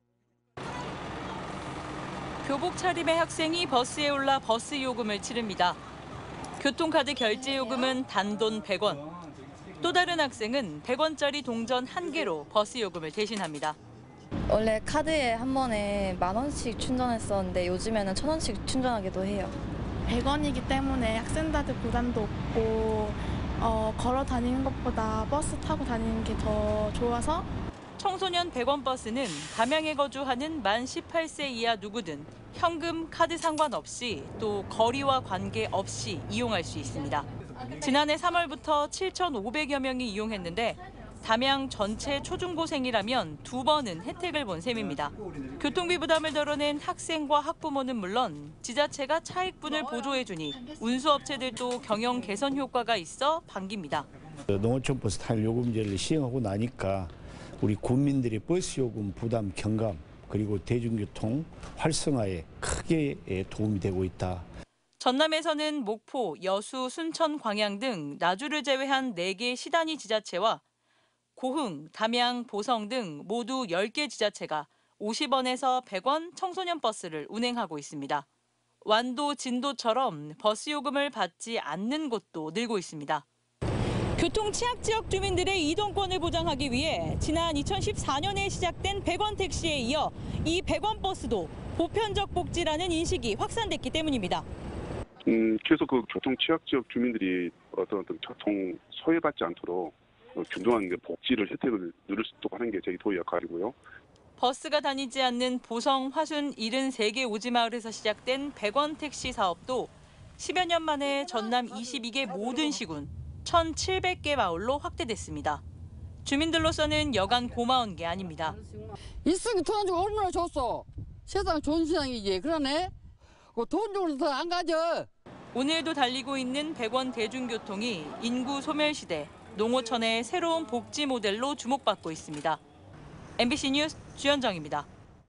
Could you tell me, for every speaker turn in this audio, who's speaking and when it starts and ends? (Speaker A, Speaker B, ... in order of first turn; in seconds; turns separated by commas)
Speaker A: 2.4-5.8, Speaker A: 6.6-9.0, Speaker A: 9.8-13.8, Speaker B: 14.5-19.6, Speaker C: 20.1-27.5, Speaker A: 28.0-54.1, Speaker D: 54.5-64.5, Speaker A: 65.0-70.6, Speaker A: 71.4-78.3, Speaker A: 78.8-83.2, Speaker A: 84.2-94.5, Speaker E: 95.2-103.8, Speaker A: 104.4-115.6, Speaker A: 116.2-118.6, Speaker F: 118.6-122.9, Speaker F: 123.5-125.1, Speaker A: 125.5-132.6, Speaker A: 133.4-134.9